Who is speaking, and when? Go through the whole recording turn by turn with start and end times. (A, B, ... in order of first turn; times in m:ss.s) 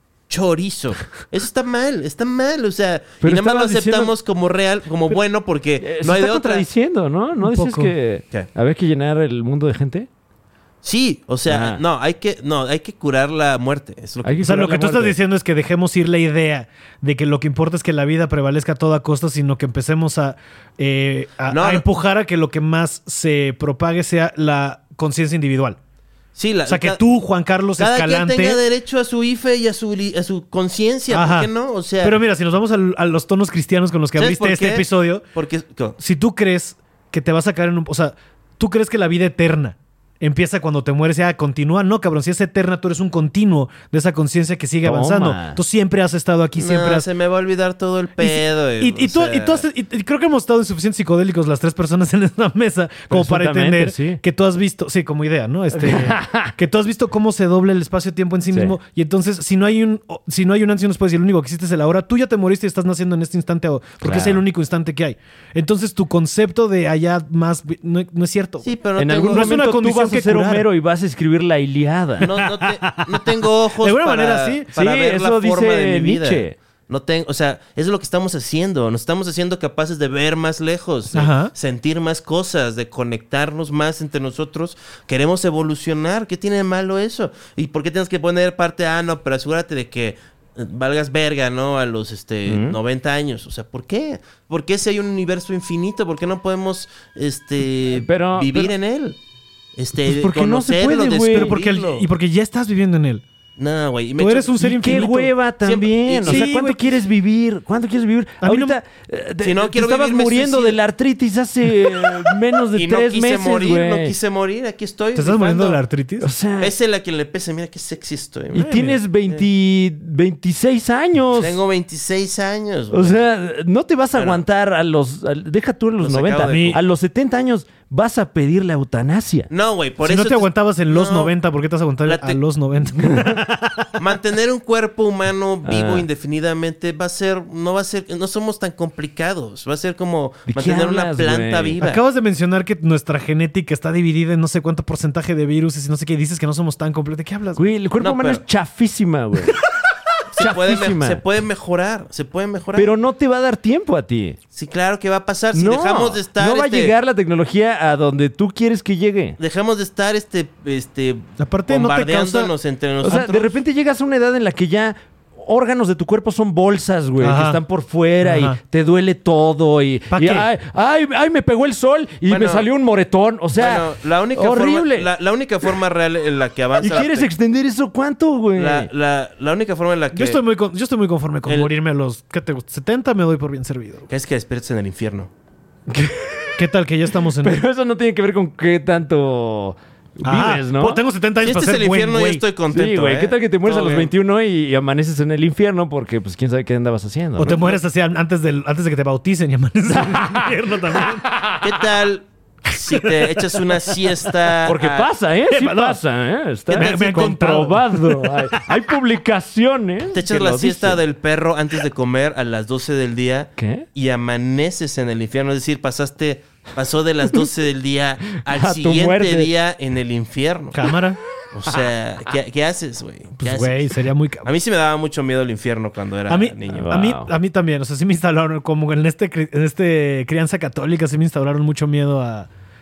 0:00.3-0:06.6 A
0:03.2-0:04.1 B
0:05.8-0:10.1 B
0:07.4-0:07.9 C
0:10.8-0:14.6 A
0:11.5-0:11.8 B
0:14.2-0:15.2 B
0:14.4-0:25.8 C
0:21.5-0:21.8 A
0:26.4-0:27.0 A
0:26.7-0:28.6 C
0:27.8-0:32.2 A
0:31.1-0:31.5 C
0:32.0-0:35.2 C
0:34.2-0:36.0 A
0:36.0-0:47.0 C
0:44.8-0:45.6 B
0:46.6-0:49.6 A
0:48.2-1:08.7 C
0:53.1-0:54.2 B
0:55.7-0:56.5 B
0:58.5-0:58.8 B
1:04.0-1:04.4 B
1:08.6-1:09.6 A
1:09.0-1:12.3 B
1:09.3-1:10.6 C
1:12.2-1:39.2 A
1:12.3-1:13.3 C
1:13.8-1:14.7 C
1:14.7-1:16.6 B
1:21.1-1:21.5 C
1:32.4-1:32.8 B
1:37.9-1:38.7 B
1:39.8-1:42.1 A
1:40.0-1:41.5 B
1:41.3-1:43.2 C
1:43.6-1:45.1 A
1:44.2-1:45.3 C
1:44.6-1:54.1 B
1:45.6-1:46.5 A
1:46.2-1:46.8 C
1:48.4-1:48.8 C
1:49.4-1:50.8 A
1:52.7-1:55.8 A
1:55.2-1:56.3 C
1:56.2-1:56.7 B
1:56.6-1:59.4 A
1:58.5-2:01.6 B
1:58.6-1:59.0 C
2:01.3-2:03.2 A
2:02.9-2:09.5 B
2:04.1-2:04.4 A
2:06.0-2:06.8 A
2:06.4-2:06.8 C
2:09.5-2:11.3 A
2:10.0-2:13.9 C
2:12.0-2:12.4 A
2:14.0-2:22.0 A
2:15.6-2:16.1 B
2:20.5-2:21.8 B
2:21.8-2:27.6 C
2:27.6-2:29.6 B
2:28.0-2:28.4 A
2:30.3-2:32.9 A
2:30.4-2:31.2 B
2:32.7-2:34.4 B
2:34.5-2:36.9 A
2:35.5-2:39.4 B
2:39.4-2:43.5 A
2:41.4-2:42.5 C
2:43.0-2:55.1 B
2:47.2-2:47.6 C
2:48.2-2:48.6 C
2:50.1-2:50.5 C
2:52.3-2:52.6 A
2:53.6-2:57.3 A
2:56.8-2:58.9 B
2:58.6-3:00.4 A
3:00.1-3:04.0 C
3:04.1-3:05.3 A
3:05.9-3:06.6 B
3:06.6-3:07.6 C
3:07.2-3:11.0 B
3:10.2-3:12.4 C
3:11.4-3:14.1 A
3:12.7-3:17.6 B
3:17.4-3:17.8 A
3:17.4-3:21.3 C
3:19.9-3:21.8 B
3:21.6-3:25.1 A
3:22.8-3:24.0 C
3:24.6-3:31.0 B
3:25.5-3:26.0 C
3:26.7-3:28.7 C
3:26.7-3:27.3 A
3:30.1-3:40.9 A
3:33.6-3:33.8 B
3:38.4-3:39.5 B
3:40.7-3:41.2 C
3:41.5-3:46.9 A
3:43.4-3:44.5 C
3:46.3-3:52.5 C
3:46.7-3:47.3 B